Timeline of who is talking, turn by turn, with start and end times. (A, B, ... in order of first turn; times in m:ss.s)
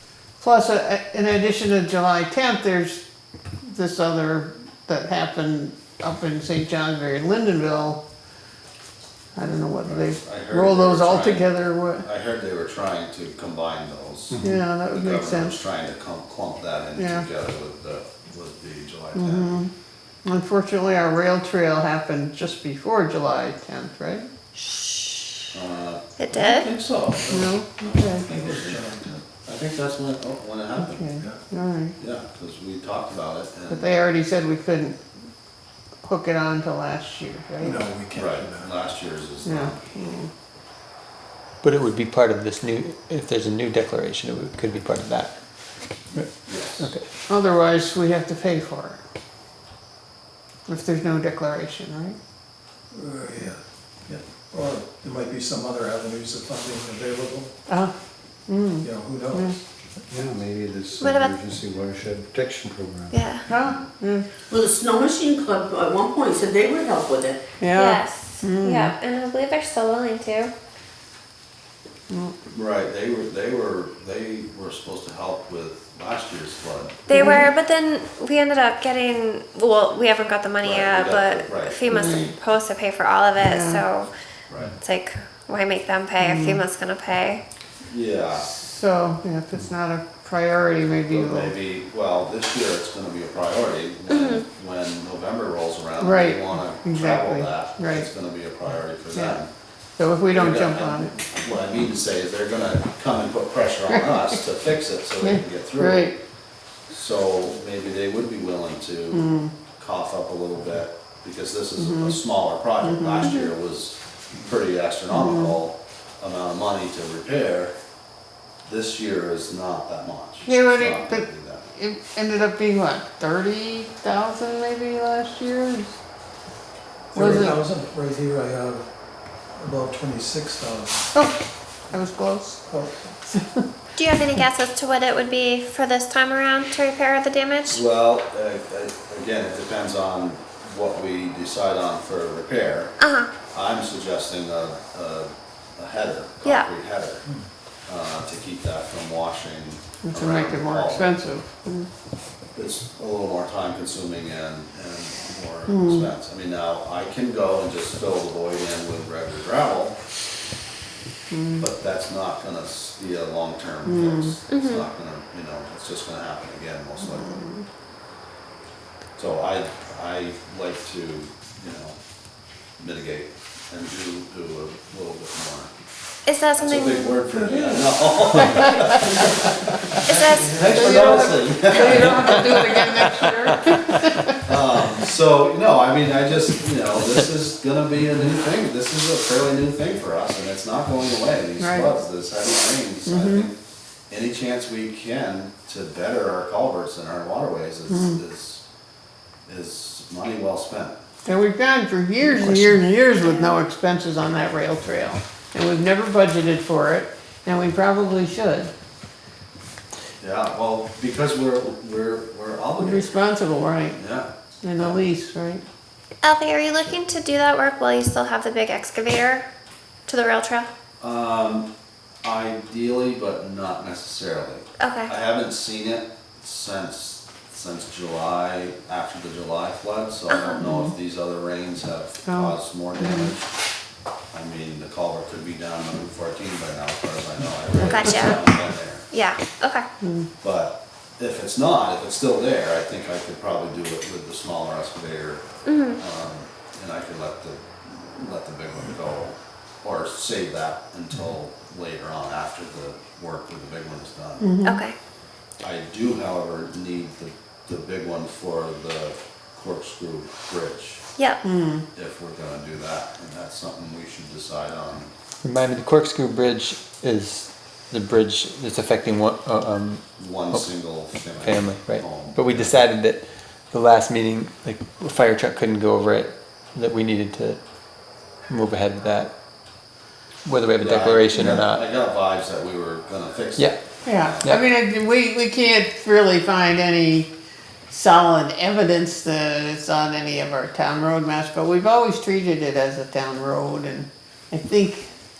0:00.4-0:03.0 A
0:03.6-0:08.0 A
0:09.4-0:12.0 A
0:09.8-0:19.6 B
0:14.4-0:15.6 A
0:17.0-0:17.2 A
0:19.1-0:19.7 A
0:20.2-0:24.3 A
0:25.5-0:28.8 B
0:26.2-0:26.7 C
0:27.2-0:27.5 D
0:27.3-0:28.2 A
0:28.1-0:29.2 D
0:29.4-0:31.0 B
0:30.8-0:32.0 A
0:32.0-0:33.9 B
0:33.7-0:35.0 A
0:36.0-0:37.8 A
0:37.6-0:38.7 D
0:38.1-0:40.0 B
0:39.4-0:40.3 A
0:41.6-0:45.3 E
0:46.1-0:47.0 E
0:46.4-0:46.9 B
0:47.3-0:49.0 A
0:50.7-0:52.2 A
0:52.9-0:57.5 D
0:57.7-0:57.9 A
0:58.5-0:59.6 A
0:58.8-0:59.5 D
1:00.1-1:03.1 F
1:01.0-1:01.3 C
1:03.1-1:03.4 C
1:03.5-1:04.3 A
1:04.7-1:07.4 G
1:07.6-1:08.9 A
1:07.7-1:10.5 C
1:12.5-1:17.0 B
1:17.1-1:24.1 C
1:17.1-1:17.5 A
1:20.6-1:22.2 B
1:21.9-1:22.3 A
1:23.4-1:23.8 A
1:24.5-1:24.8 B
1:24.8-1:27.4 C
1:26.2-1:26.6 A
1:27.8-1:28.5 B
1:28.4-1:31.6 A
1:31.1-1:39.5 B
1:34.1-1:34.4 C
1:36.0-1:38.1 A
1:39.1-1:39.4 A
1:40.0-1:41.1 A
1:40.3-1:46.1 B
1:43.9-1:44.4 A
1:45.2-1:46.2 A
1:46.9-1:57.7 B
1:49.1-1:49.5 A
1:51.8-1:52.2 A
1:52.8-1:53.4 A
1:55.1-1:55.6 A
1:58.6-2:01.7 B
2:00.4-2:06.0 A
2:07.1-2:08.9 D
2:07.1-2:07.6 A
2:09.6-2:11.0 D
2:11.9-2:12.6 A
2:12.7-2:13.2 D
2:13.3-2:13.6 A
2:13.9-2:17.8 C
2:17.7-2:22.9 B
2:23.0-2:23.3 C
2:23.5-2:27.2 B
2:27.9-2:31.2 B
2:30.0-2:31.9 A
2:32.6-2:40.0 B
2:35.7-2:36.1 A
2:41.3-2:41.7 A
2:41.6-2:47.4 B
2:43.9-2:44.4 A
2:44.5-2:44.8 C
2:47.0-2:47.6 A
2:49.2-2:52.0 B
2:52.8-2:55.7 B
2:56.2-2:57.2 C
2:56.6-3:02.4 B
2:58.4-2:58.8 A
3:00.0-3:00.7 C
3:00.7-3:04.6 A
3:01.8-3:03.1 E
3:03.7-3:04.2 E
3:04.4-3:13.6 B
3:11.6-3:12.0 A
3:13.1-3:13.5 A
3:14.1-3:18.6 B
3:17.9-3:18.2 A
3:19.5-3:21.0 B
3:21.2-3:28.7 A
3:23.2-3:23.5 C
3:30.2-3:33.1 B
3:32.8-3:34.0 A
3:33.9-3:35.0 B
3:34.6-3:35.6 A
3:36.2-3:39.5 C
3:40.1-3:40.7 C
3:41.0-3:41.7 B
3:42.2-3:53.4 B
3:44.8-3:45.1 C
3:50.3-3:50.6 C
3:52.2-3:53.3 A
3:54.3-3:59.1 B
3:57.9-3:58.5 C
3:59.1-3:59.9 C
4:00.0-4:00.3 A
4:00.4-4:05.4 B
4:05.7-4:06.0 C
4:05.9-4:14.5 B
4:14.4-4:14.8 A
4:14.6-4:15.0 C
4:15.6-4:21.0 B
4:21.4-4:21.8 A
4:21.9-4:25.1 B
4:25.4-4:30.7 E
4:30.2-4:32.8 B
4:31.2-4:37.6 E
4:38.5-4:39.3 E
4:40.4-4:41.8 E
4:40.8-4:44.4 B
4:44.0-4:47.3 A
4:47.9-4:55.1 A